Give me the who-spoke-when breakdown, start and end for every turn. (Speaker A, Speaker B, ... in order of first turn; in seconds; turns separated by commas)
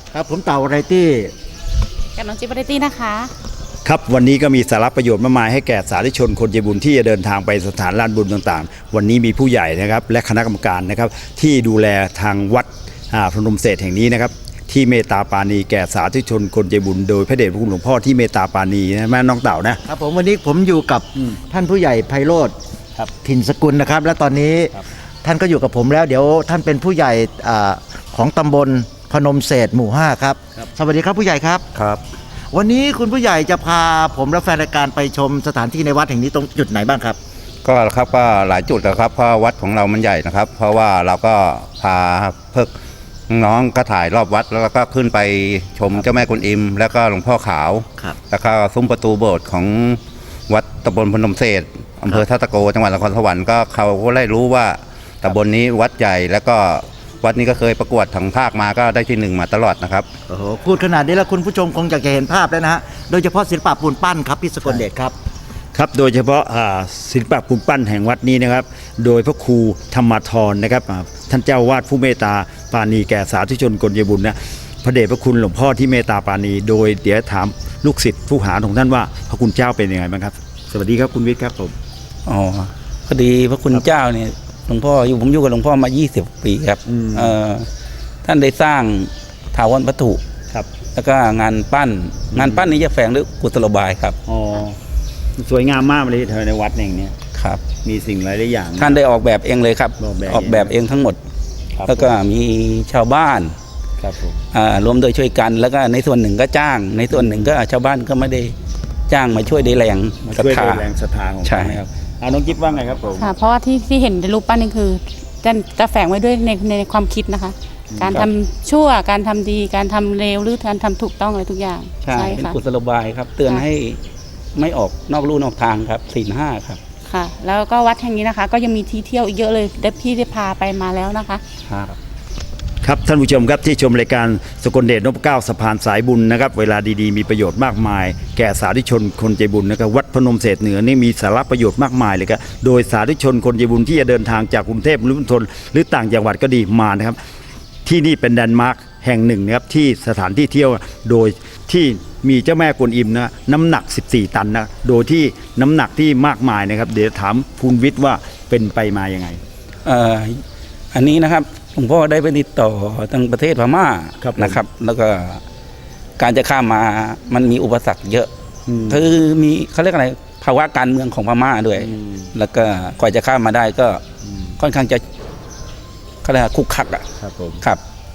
Speaker A: 0.1-1.3, Speaker B: 2.1-3.3, Speaker C: 3.8-19.8, Speaker A: 19.9-22.5, Speaker A: 23.1-31.7, Speaker C: 31.7-32.0, Speaker A: 32.5-37.2, Speaker D: 37.6-42.7, Speaker D: 43.3-60.1, Speaker A: 60.3-65.2, Speaker C: 65.7-81.7, Speaker E: 82.2-87.7, Speaker C: 86.9-87.3, Speaker E: 88.2-90.2, Speaker E: 90.9-94.2, Speaker C: 92.3-92.7, Speaker C: 94.3-94.8, Speaker C: 95.4-97.2, Speaker E: 97.3-97.6, Speaker C: 97.8-99.0, Speaker E: 98.8-101.2, Speaker C: 100.0-100.7, Speaker C: 101.8-102.1, Speaker E: 101.8-103.5, Speaker C: 104.0-104.4, Speaker E: 104.5-108.5, Speaker E: 109.1-110.8, Speaker C: 110.3-113.3, Speaker E: 111.4-111.8, Speaker B: 113.2-122.6, Speaker C: 117.9-118.3, Speaker E: 122.0-124.0, Speaker E: 124.5-126.8, Speaker B: 127.1-131.4, Speaker C: 132.8-147.2, Speaker C: 147.8-159.4, Speaker E: 159.8-160.4, Speaker E: 160.9-165.4, Speaker C: 164.2-164.6, Speaker E: 166.2-168.3, Speaker C: 168.7-169.0, Speaker E: 168.8-174.0, Speaker C: 171.8-172.3, Speaker E: 174.6-175.0, Speaker E: 176.2-177.1, Speaker C: 177.2-177.6